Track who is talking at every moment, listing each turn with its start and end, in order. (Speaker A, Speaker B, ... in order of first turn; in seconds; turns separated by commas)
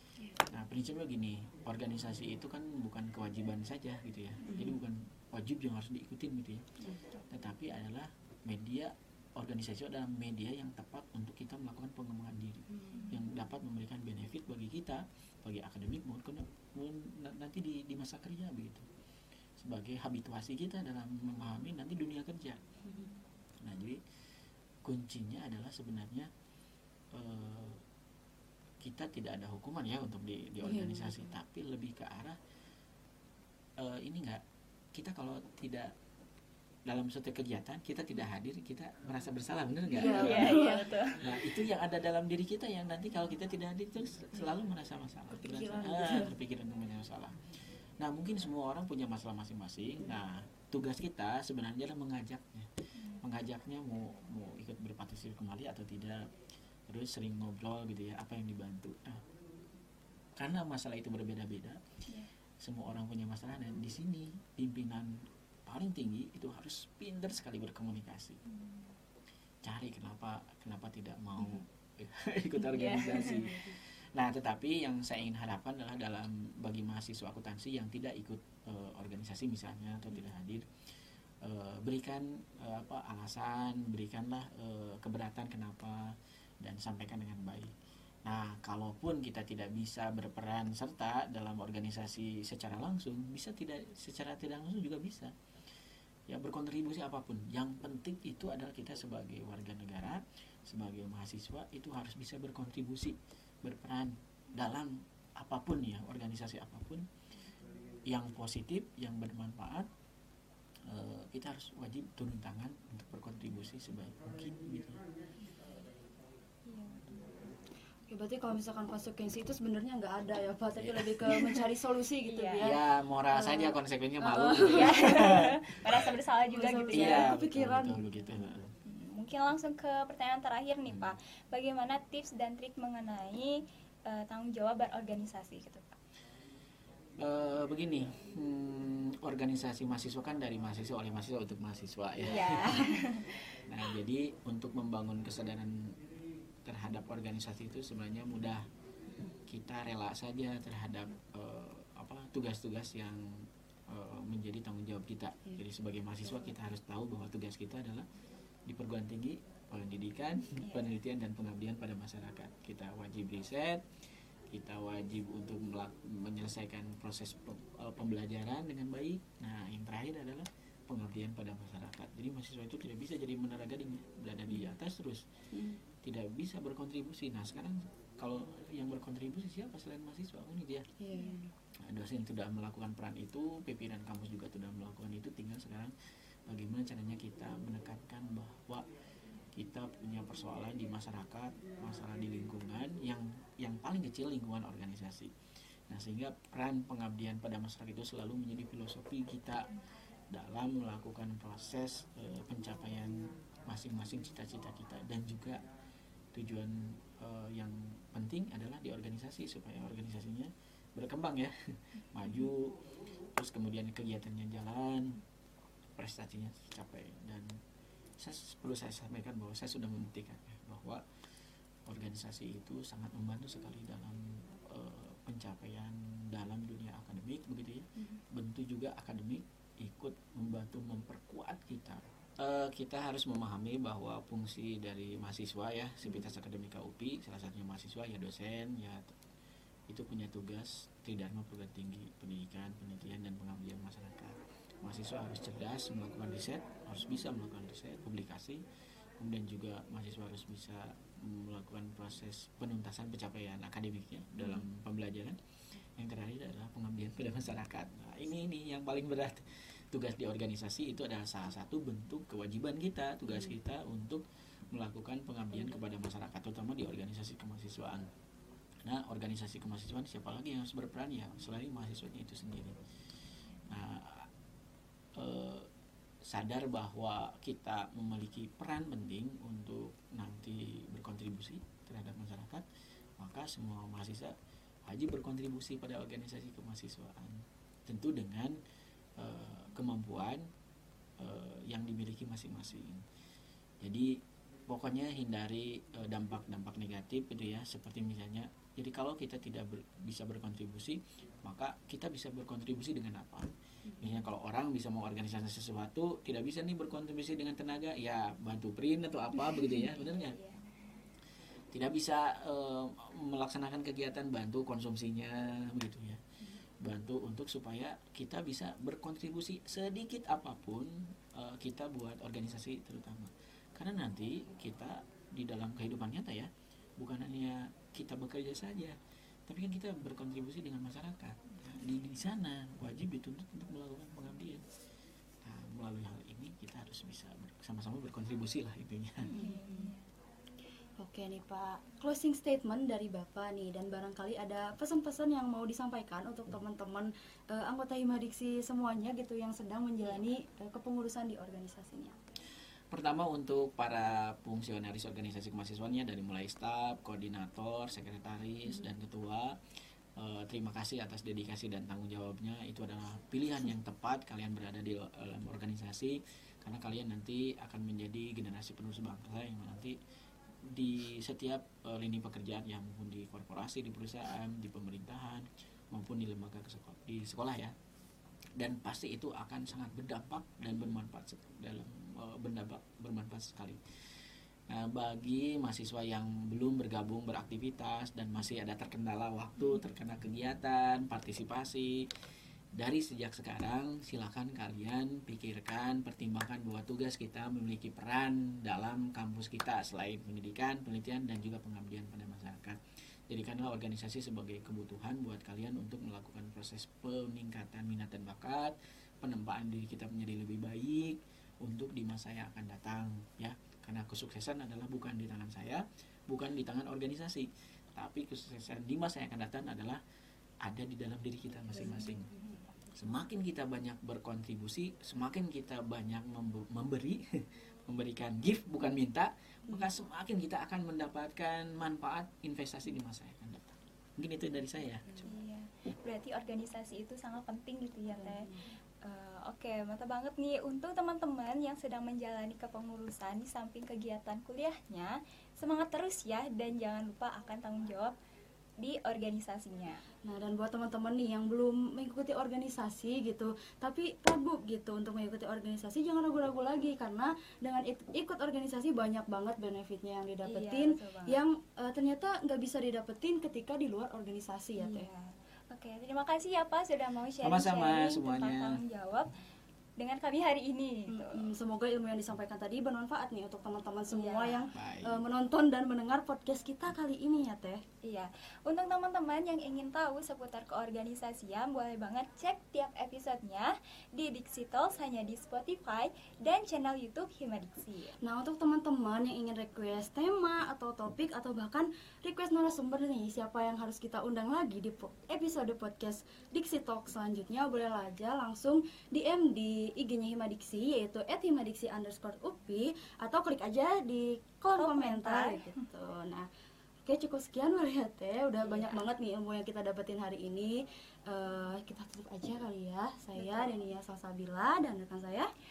Speaker A: 0.5-6.7, Speaker B: 4.4-4.8, Speaker A: 7.3-18.9, Speaker B: 12.7-13.1, Speaker C: 12.9-13.2, Speaker A: 19.6-22.6, Speaker B: 22.9-23.1, Speaker A: 23.6-24.0, Speaker A: 24.8-26.3, Speaker A: 27.1-27.8, Speaker A: 28.8-32.4, Speaker B: 30.6-31.3, Speaker A: 33.8-34.4, Speaker A: 34.9-36.0, Speaker A: 36.9-56.3, Speaker B: 39.9-41.0, Speaker C: 40.0-41.4, Speaker B: 45.3-46.4, Speaker C: 53.0-53.2, Speaker A: 56.9-59.3, Speaker A: 60.4-61.8, Speaker A: 62.6-68.4, Speaker C: 68.5-69.0, Speaker A: 69.6-80.7, Speaker C: 72.7-73.5, Speaker B: 72.8-73.8, Speaker A: 81.4-87.7, Speaker A: 88.2-95.3, Speaker A: 96.3-107.1, Speaker A: 108.1-109.9, Speaker A: 110.8-115.0, Speaker C: 116.7-117.5, Speaker B: 118.1-125.3, Speaker A: 120.8-121.4, Speaker C: 122.3-122.7, Speaker A: 122.6-126.1, Speaker C: 124.7-127.4, Speaker B: 126.5-128.5, Speaker A: 126.9-128.8, Speaker C: 128.8-135.9, Speaker A: 130.9-131.1, Speaker A: 137.2-142.9, Speaker C: 142.2-143.4, Speaker B: 142.2-143.0, Speaker A: 143.7-146.0, Speaker A: 146.6-148.7, Speaker A: 149.5-158.1, Speaker A: 158.7-163.9, Speaker C: 160.6-160.9, Speaker A: 164.5-175.3, Speaker B: 175.5-175.8, Speaker A: 176.0-180.9, Speaker B: 181.0-181.5, Speaker A: 181.8-185.9, Speaker A: 186.5-188.9, Speaker A: 189.5-195.3, Speaker A: 195.9-199.7, Speaker A: 200.3-205.6, Speaker A: 206.3-215.2, Speaker A: 216.0-217.6, Speaker A: 218.2-221.0, Speaker A: 221.8-239.2, Speaker A: 239.9-248.6, Speaker A: 249.2-255.4, Speaker A: 255.9-268.1, Speaker A: 268.8-272.8, Speaker A: 273.7-274.3, Speaker A: 275.1-275.7, Speaker A: 276.2-282.6, Speaker A: 283.2-288.6, Speaker A: 289.2-290.4, Speaker A: 291.2-293.0, Speaker A: 293.8-310.4, Speaker B: 303.9-304.1, Speaker C: 309.7-310.7, Speaker A: 311.7-316.2, Speaker A: 316.8-334.6, Speaker A: 335.4-339.3, Speaker C: 339.3-340.0, Speaker B: 339.3-339.9, Speaker B: 341.0-352.2, Speaker A: 352.9-359.6, Speaker A: 360.1-370.0, Speaker A: 370.6-377.8, Speaker A: 378.6-392.1, Speaker A: 392.8-420.0, Speaker A: 420.6-422.3, Speaker B: 421.9-422.3, Speaker A: 422.9-435.1, Speaker C: 435.2-448.1, Speaker B: 438.1-438.7, Speaker C: 448.8-450.0, Speaker B: 450.2-465.1, Speaker C: 460.5-461.4, Speaker C: 464.8-469.3, Speaker A: 467.4-468.8, Speaker C: 470.0-471.5, Speaker B: 471.1-477.8, Speaker C: 474.1-474.7, Speaker A: 474.7-475.2, Speaker C: 478.0-488.2, Speaker B: 488.2-506.5, Speaker C: 504.8-505.7, Speaker B: 507.1-515.5, Speaker C: 508.6-509.1, Speaker C: 513.4-513.7